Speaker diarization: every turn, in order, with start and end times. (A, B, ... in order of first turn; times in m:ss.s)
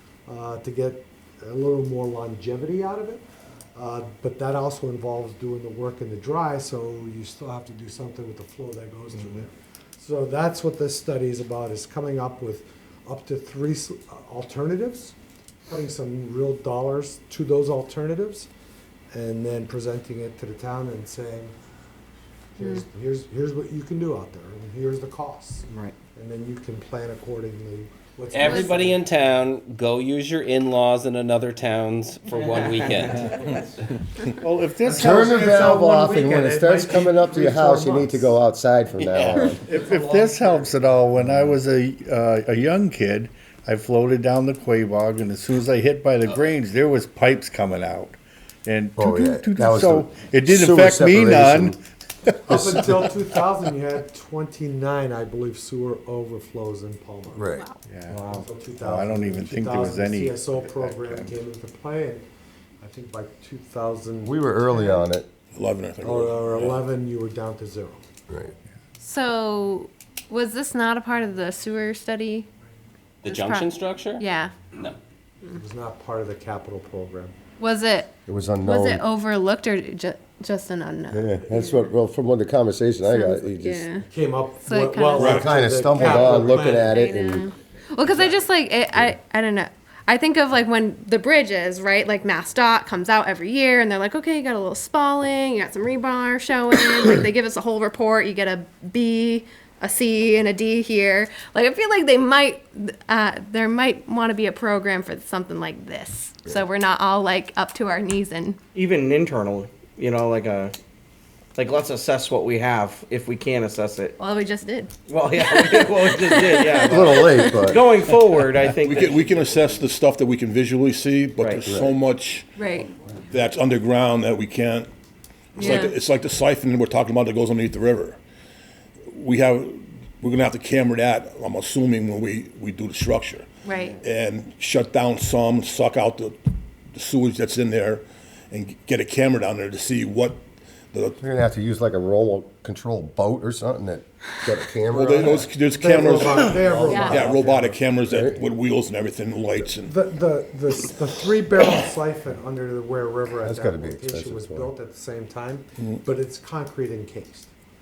0:00.3-0:03.2 A
0:03.8-0:15.2 A
0:15.7-0:18.5 A
0:19.1-0:21.5 A
0:22.6-0:29.1 A
0:25.7-0:26.0 B
0:28.3-0:33.5 C
0:28.4-0:28.8 D
0:32.3-0:33.6 B
0:34.4-0:35.2 E
0:34.8-0:38.4 A
0:34.9-0:39.6 F
0:39.0-0:39.4 C
0:39.5-0:40.9 A
0:39.7-0:51.8 E
0:49.0-0:51.8 F
0:52.5-0:57.4 A
0:57.3-0:57.7 F
0:57.9-1:01.4 E
0:58.1-1:02.3 A
1:02.8-1:04.4 A
1:04.2-1:05.3 F
1:05.5-1:06.8 G
1:06.0-1:08.1 A
1:09.0-1:12.5 D
1:13.2-1:14.6 D
1:13.2-1:15.0 C
1:15.5-1:17.4 A
1:17.6-1:18.1 D
1:18.3-1:19.1 F
1:18.6-1:21.9 D
1:21.1-1:24.0 F
1:23.1-1:24.1 D
1:24.1-1:26.9 A
1:24.6-1:48.6 D
1:25.2-1:25.5 G
1:25.2-1:27.5 F
1:28.1-1:28.3 A
1:48.7-1:50.7 B
1:51.6-1:54.2 B
1:54.2-1:54.9 D
1:55.1-1:59.4 B
1:56.4-1:57.5 D
1:56.8-1:57.9 F
1:58.8-2:04.9 G
2:01.4-2:01.8 B
2:01.7-2:02.0 F
2:02.6-2:02.9 D
2:05.6-2:08.2 G
2:05.6-2:06.0 D
2:09.1-2:13.5 G
2:13.6-2:14.0 D
2:14.0-2:16.4 G
2:16.9-2:21.2 G
2:21.2-2:25.5 F
2:24.9-2:29.9 G
2:25.7-2:27.8 A
2:26.4-2:27.3 F
2:26.9-2:27.2 D
2:28.1-2:28.4 F
2:29.8-2:37.5 A
2:33.4-2:34.7 F